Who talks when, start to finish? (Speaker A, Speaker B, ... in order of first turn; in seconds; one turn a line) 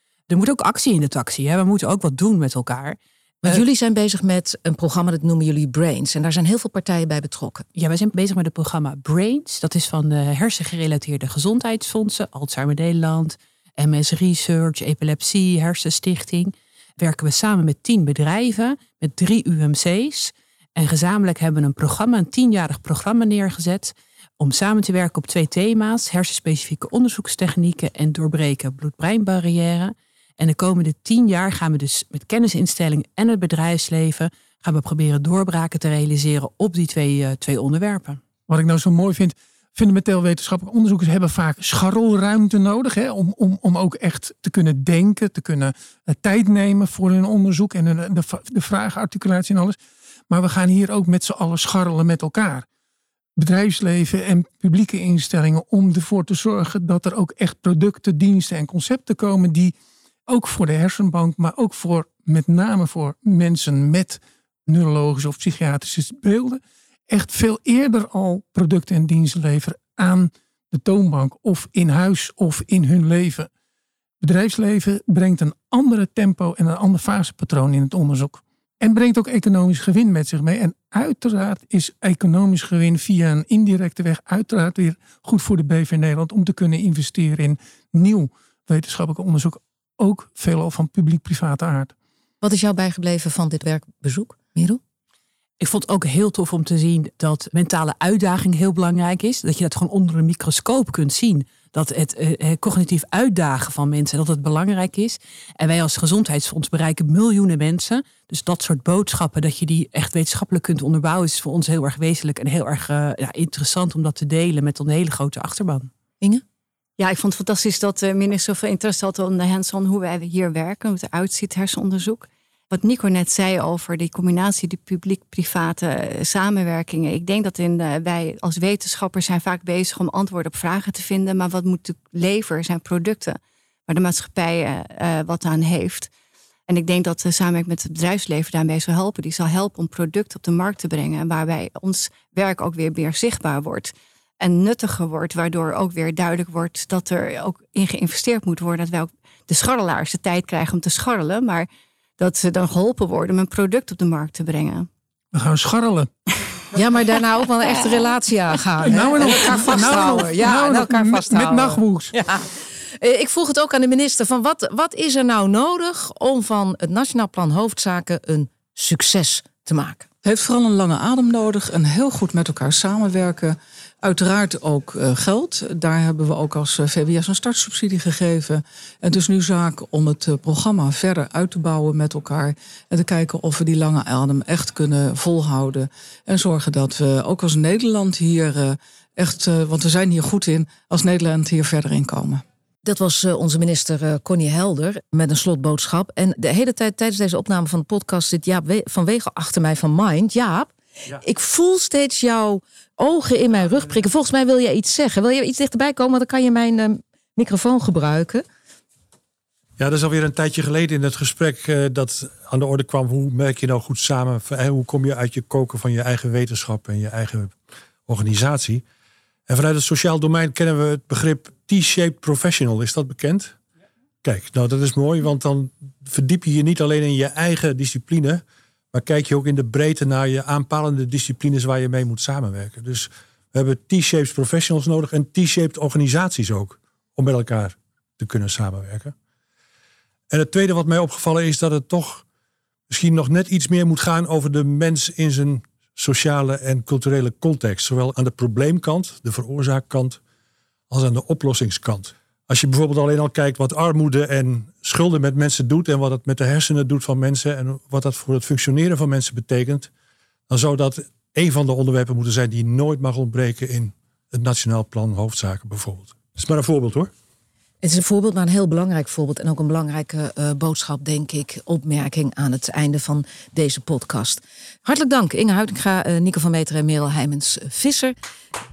Speaker A: 0.3-3.6
Speaker B: 3.4-7.7
Speaker A: 7.7-38.2
Speaker C: 38.5-49.8
Speaker C: 50.3-52.6
Speaker C: 53.4-59.7
Speaker C: 60.3-73.5
Speaker C: 74.2-91.9
Speaker B: 92.4-94.8
Speaker A: 95.6-115.9
Speaker D: 117.0-136.1
Speaker D: 136.7-151.7
Speaker D: 152.2-154.9
Speaker C: 155.3-156.1
Speaker B: 156.7-170.1
Speaker C: 158.8-162.1
Speaker E: 170.2-192.4
Speaker B: 192.8-208.4
Speaker F: 209.8-218.8
Speaker F: 219.5-223.6
Speaker F: 224.2-239.1
Speaker F: 240.3-242.2
Speaker F: 242.9-250.2
Speaker F: 250.9-259.9
Speaker F: 260.5-267.1
Speaker B: 267.8-278.1